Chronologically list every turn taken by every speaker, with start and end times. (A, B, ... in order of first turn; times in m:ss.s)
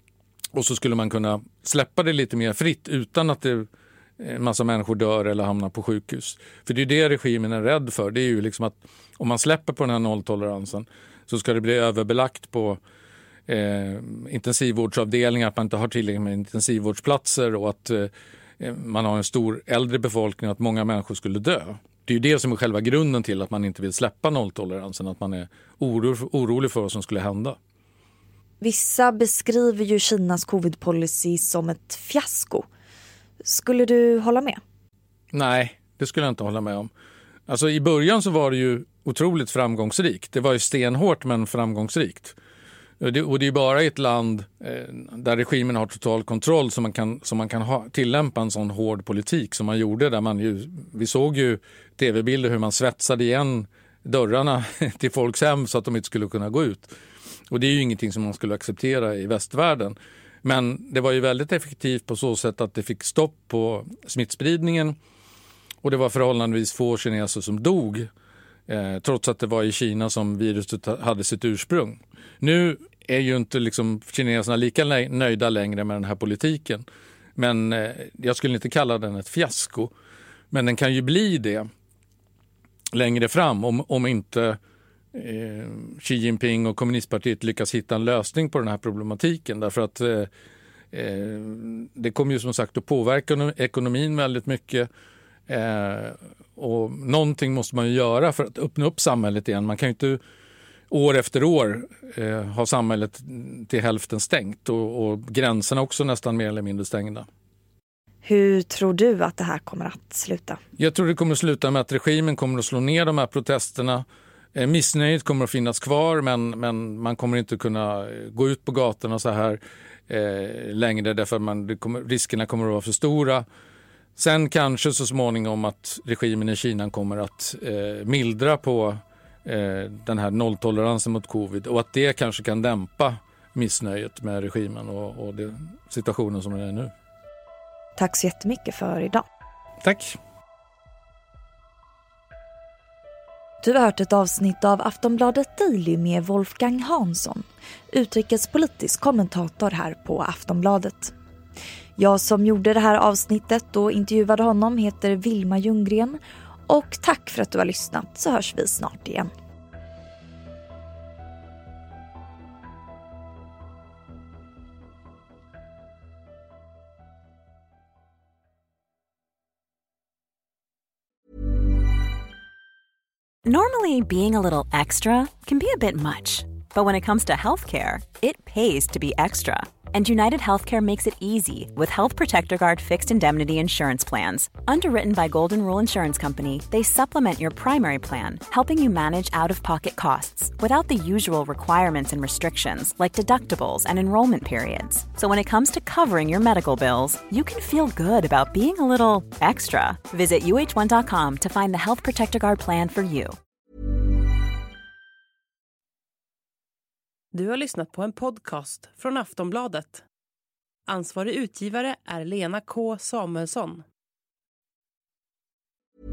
0:00.5-0:03.7 A
0:04.2-0:12.8 A
0:13.5-0:27.6 A
0:28.6-0:32.6 B
0:33.4-0:34.6 B
0:35.3-0:36.9 A
0:37.5-0:42.3 A
0:43.0-0:56.9 A
0:57.5-1:05.0 A
1:05.8-1:08.1 A
1:08.7-1:16.8 A
1:17.4-1:19.9 A
1:20.5-1:21.7 A
1:22.9-1:24.6 A
1:25.1-1:30.3 A
1:30.9-1:34.9 A
1:35.5-1:40.2 A
1:40.9-1:47.2 A
1:48.2-1:50.6 B
1:50.8-2:03.4 A
2:04.2-2:16.9 A
2:18.0-2:19.2 B
2:19.8-2:20.2 A
2:23.6-2:31.1 B
2:32.0-2:39.3 B
2:53.4-3:23.4 C
3:27.3-3:30.0 D
3:30.9-3:33.8 D